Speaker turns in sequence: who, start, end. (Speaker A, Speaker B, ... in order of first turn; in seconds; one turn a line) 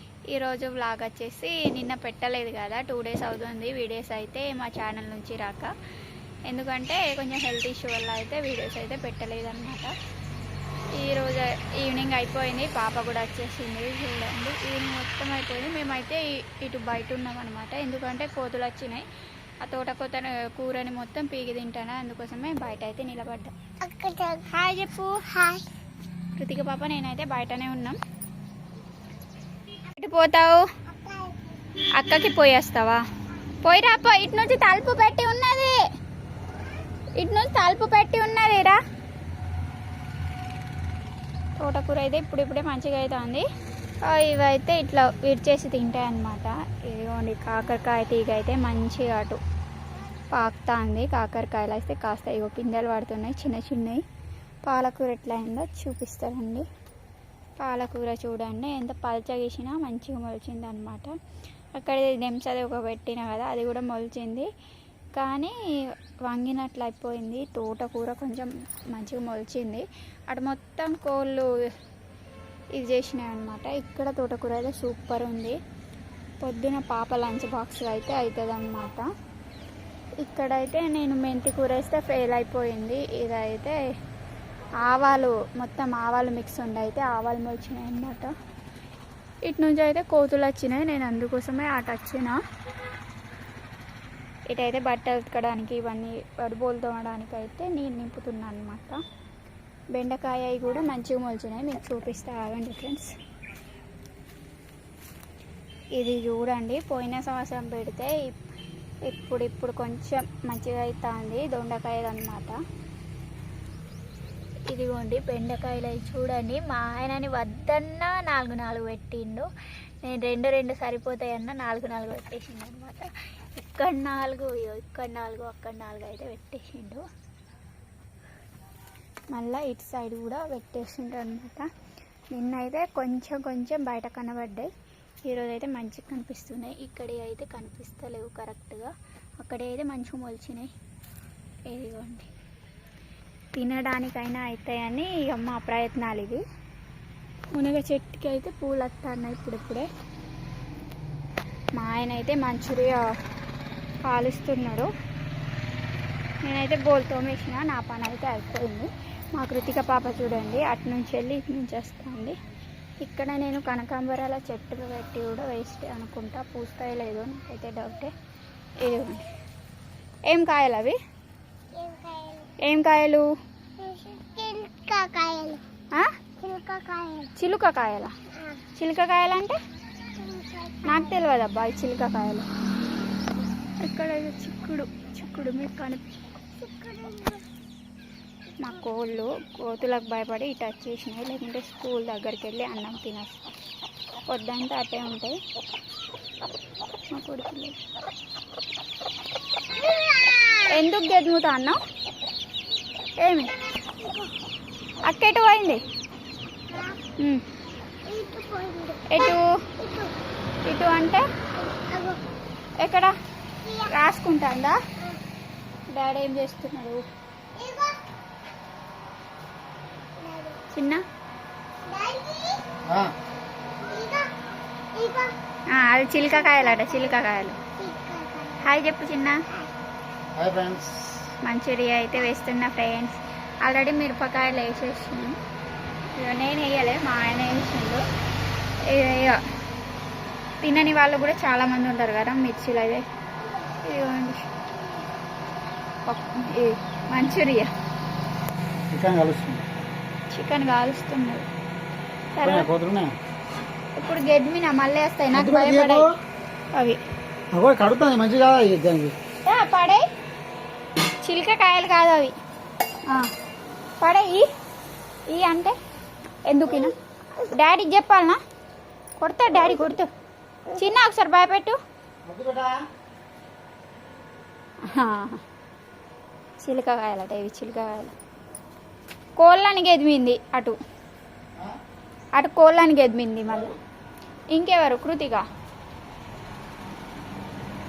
Speaker A: 0.3-5.7
Speaker A: 6.5-9.9
Speaker A: 10.9-19.1
Speaker A: 19.6-23.5
Speaker B: 23.8-24.5
Speaker A: 24.4-25.3
Speaker B: 25.2-25.6
Speaker A: 26.4-28.0
Speaker A: 30.0-30.6
Speaker B: 30.9-31.4
Speaker A: 31.9-33.0
Speaker A: 33.6-35.8
Speaker A: 37.2-38.8
Speaker A: 41.6-43.4
Speaker A: 44.0-49.4
Speaker A: 50.3-54.0
Speaker A: 54.6-56.6
Speaker A: 57.6-61.1
Speaker A: 61.8-64.5
Speaker A: 65.1-65.5
Speaker A: 66.3-71.5
Speaker A: 72.8-75.6
Speaker A: 76.4-79.0
Speaker A: 80.2-83.8
Speaker A: 84.8-88.3
Speaker A: 89.5-92.4
Speaker A: 94.5-99.0
Speaker A: 99.9-103.1
Speaker A: 106.0-108.4
Speaker A: 109.0-112.5
Speaker A: 114.7-119.5
Speaker A: 120.0-127.0
Speaker A: 129.3-131.7
Speaker A: 132.3-134.7
Speaker A: 135.2-140.7
Speaker A: 141.7-142.3
Speaker A: 143.5-146.4
Speaker A: 147.5-149.9
Speaker A: 151.8-153.1
Speaker A: 154.1-154.9
Speaker A: 156.4-162.3
Speaker A: 163.0-168.1
Speaker A: 168.8-169.2
Speaker A: 170.3-171.0
Speaker B: 171.7-172.5
Speaker A: 172.6-173.3
Speaker B: 173.8-175.6
Speaker B: 176.4-177.3
Speaker A: 177.3-178.1
Speaker A: 178.8-179.6
Speaker B: 180.2-181.2
Speaker A: 180.8-182.5
Speaker A: 183.8-186.0
Speaker B: 186.6-187.4
Speaker A: 188.6-193.4
Speaker A: 194.3-195.4
Speaker A: 197.1-197.8
Speaker B: 199.7-200.8
Speaker A: 200.7-201.8
Speaker A: 203.2-203.5
Speaker B: 204.0-204.3
Speaker A: 205.0-205.8
Speaker B: 206.7-207.0
Speaker B: 208.1-210.1
Speaker A: 209.1-209.5
Speaker A: 210.7-211.2
Speaker B: 211.6-212.2
Speaker A: 212.8-213.1
Speaker B: 213.6-213.9
Speaker A: 213.9-214.8
Speaker A: 215.9-217.1
Speaker B: 217.6-218.0
Speaker B: 220.2-220.6
Speaker A: 220.7-221.0
Speaker B: 221.8-222.7
Speaker C: 222.8-223.1
Speaker B: 223.8-224.3
Speaker B: 224.9-225.3
Speaker A: 225.7-227.6
Speaker B: 226.3-227.2
Speaker B: 227.7-228.7
Speaker A: 228.6-229.4
Speaker C: 230.3-231.3
Speaker A: 231.4-235.4
Speaker A: 236.2-238.0
Speaker A: 238.8-239.4
Speaker A: 240.6-243.0
Speaker A: 243.8-244.5
Speaker B: 244.8-245.1
Speaker A: 246.1-247.7
Speaker C: 248.9-249.7
Speaker A: 250.3-251.5
Speaker A: 252.3-252.7
Speaker C: 252.4-253.1
Speaker A: 254.0-256.1
Speaker C: 255.3-256.1
Speaker A: 256.7-257.0
Speaker C: 257.5-259.1
Speaker A: 259.4-260.0
Speaker A: 261.2-262.3
Speaker A: 264.0-264.5
Speaker A: 265.3-265.8
Speaker A: 266.5-268.4
Speaker A: 269.2-270.1
Speaker A: 270.7-271.8
Speaker C: 272.2-272.8
Speaker A: 274.8-275.4
Speaker A: 276.6-278.1
Speaker A: 279.4-280.8
Speaker A: 282.3-283.7
Speaker A: 284.5-285.4